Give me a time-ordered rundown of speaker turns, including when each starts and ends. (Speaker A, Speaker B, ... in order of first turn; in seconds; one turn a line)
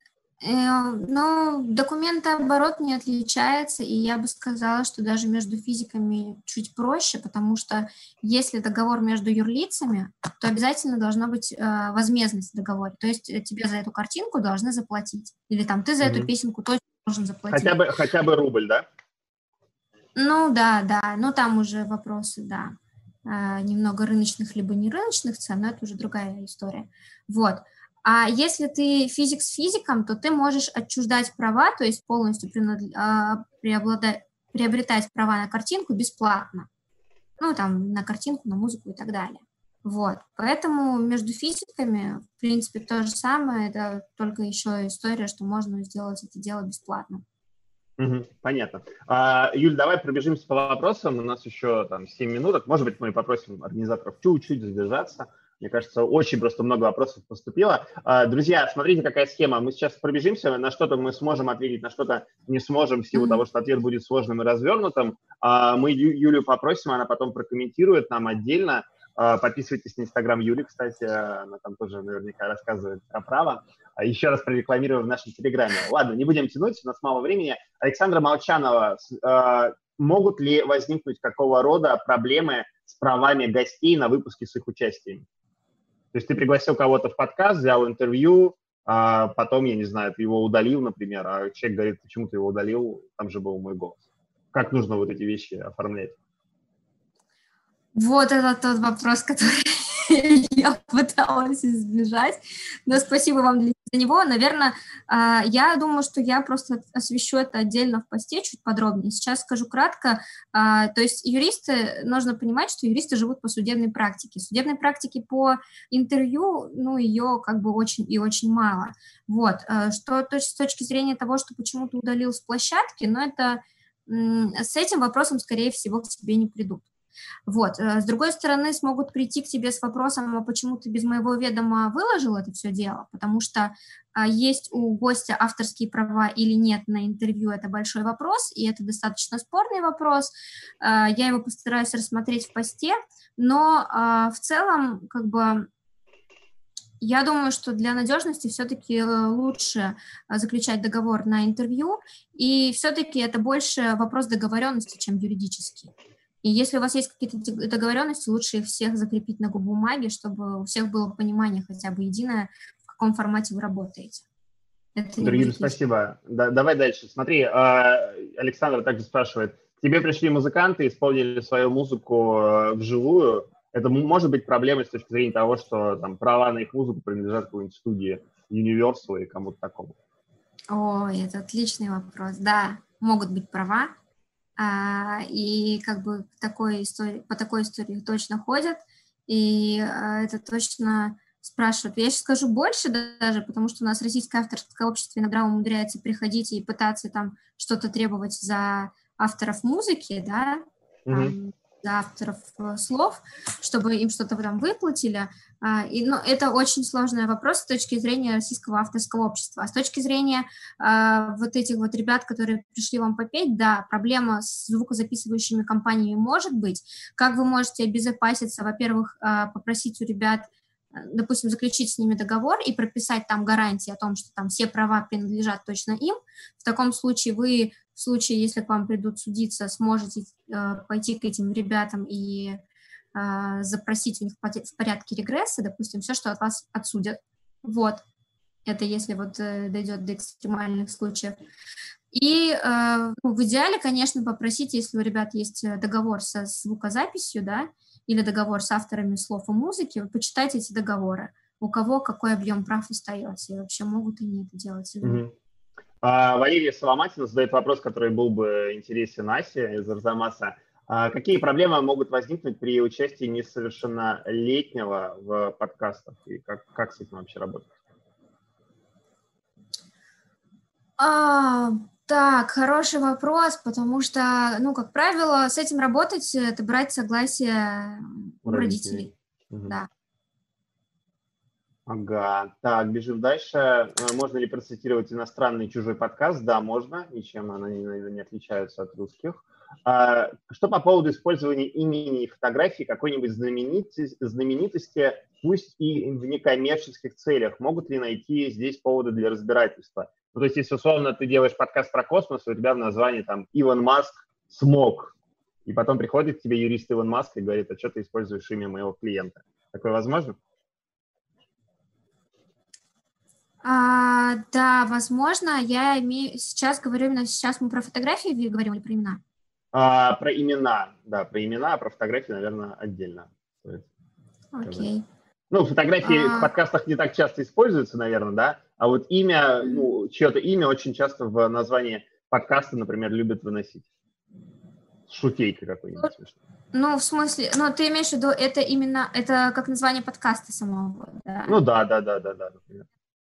Speaker A: 0.4-17.8
Speaker B: 16.0-16.3
Speaker B: 17.5-18.9
Speaker A: 20.2-22.7
Speaker A: 23.3-36.7
Speaker A: 37.4-47.2
Speaker B: 48.0-85.2
Speaker A: 63.1-63.4
Speaker B: 86.1-96.2
Speaker A: 98.0-126.9
Speaker A: 127.5-145.7
Speaker A: 147.0-164.2
Speaker A: 165.0-165.8
Speaker B: 165.2-180.0
Speaker A: 180.7-183.9
Speaker A: 184.6-232.6
Speaker B: 201.1-201.3
Speaker A: 233.2-238.0
Speaker A: 238.7-241.4
Speaker A: 242.1-255.2
Speaker B: 255.0-255.3
Speaker B: 256.0-267.7
Speaker A: 271.0-279.1
Speaker B: 278.4-279.8
Speaker B: 281.9-305.1
Speaker B: 305.7-310.4
Speaker A: 313.6-319.2
Speaker B: 319.7-323.9
Speaker A: 324.5-325.1
Speaker B: 324.6-324.9
Speaker B: 325.5-333.9
Speaker A: 326.0-326.5
Speaker B: 335.1-336.4
Speaker A: 336.7-341.6
Speaker B: 341.5-342.9